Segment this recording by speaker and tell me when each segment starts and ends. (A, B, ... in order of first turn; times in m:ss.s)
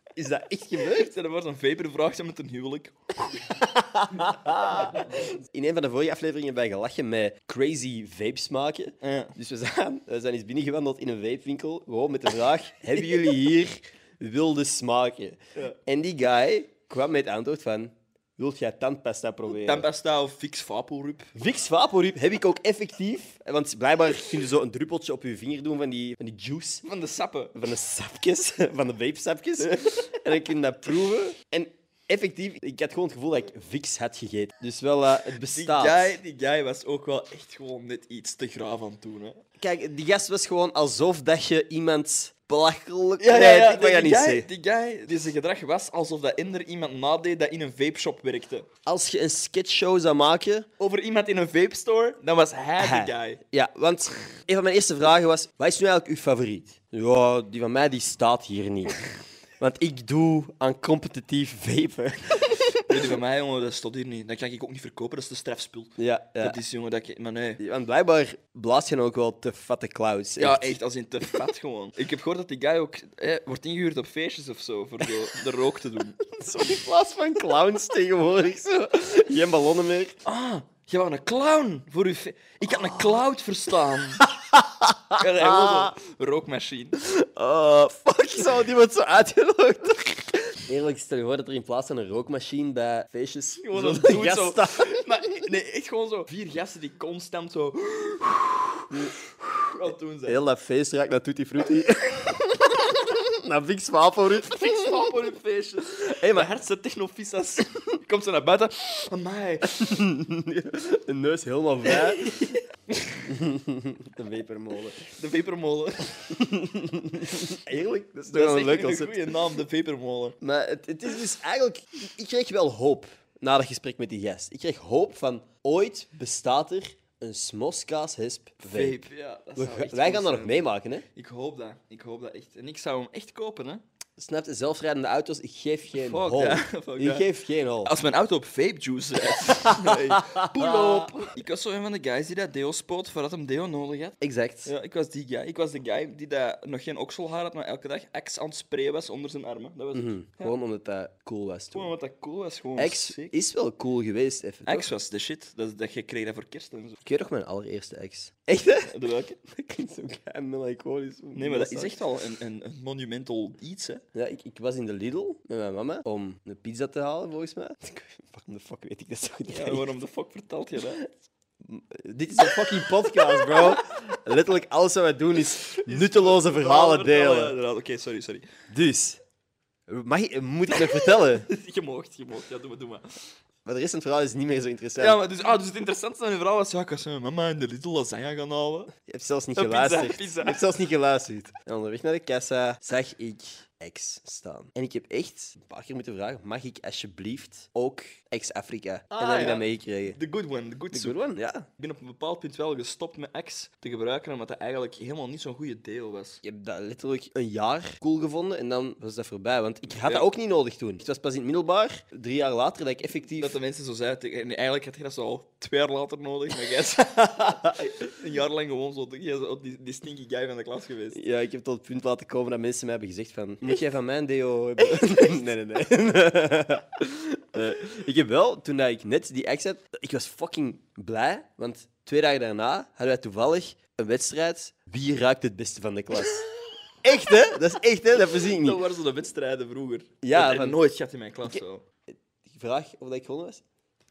0:00.2-0:01.1 A
0:00.7-0:03.5 B
0:03.6-0:19.9 A
0:04.8-0:05.2 B
0:09.0-0:09.3 B
0:19.5-0:21.3 B
0:21.3-0:26.8 A
0:26.8-0:27.6 B
0:27.5-0:36.2 A
0:29.7-0:30.1 B
0:35.4-0:39.4 B
0:39.6-0:44.5 A
0:43.2-0:48.7 B
0:48.8-0:50.7 A
0:50.8-0:53.4 B
0:52.8-1:03.0 A
1:02.9-1:07.6 B
1:06.0-1:06.6 A
1:07.6-1:10.8 A
1:10.4-1:16.2 B
1:16.2-1:20.2 A
1:20.2-1:24.2 B
1:22.7-1:23.2 A
1:24.3-1:25.9 A
1:25.2-1:27.0 B
1:27.0-1:35.4 A
1:33.6-1:40.4 B
1:40.3-1:45.1 A
1:44.4-1:49.7 B
1:46.0-1:46.5 A
1:49.6-1:52.3 A
1:51.8-1:53.2 B
1:53.2-1:55.0 A
1:55.0-1:56.3 B
1:56.3-1:59.3 A
1:58.3-2:00.4 B
2:00.4-2:11.0 A
2:08.6-2:13.8 B
2:14.2-2:17.9 A
2:15.9-2:17.3 B
2:17.8-2:30.5 B
2:19.6-2:21.3 A
2:24.2-2:24.7 A
2:29.9-2:31.9 A
2:31.7-2:33.3 B
2:32.8-2:34.9 A
2:34.6-2:37.0 B
2:37.0-2:38.9 A
2:38.8-2:39.4 B
2:39.4-2:42.0 A
2:41.3-2:44.0 B
2:44.1-2:49.9 A
2:49.5-2:51.0 B
2:51.6-2:57.6 A
2:52.4-2:53.8 B
2:55.5-2:58.4 B
2:58.7-2:59.2 A
2:59.9-3:01.5 A
3:00.7-3:03.2 B
3:03.6-3:05.2 A
3:05.0-3:08.9 B
3:09.0-3:20.2 A
3:09.6-3:10.6 B
3:19.1-3:21.2 B
3:20.9-3:21.7 A
3:21.8-3:26.4 B
3:26.4-3:33.6 A
3:29.9-3:30.3 B
3:33.4-3:41.2 B
3:37.3-3:37.7 A
3:41.1-3:56.5 A
3:57.0-3:58.8 A
3:58.3-4:01.8 B
4:00.2-4:00.8 A
4:02.1-4:03.6 A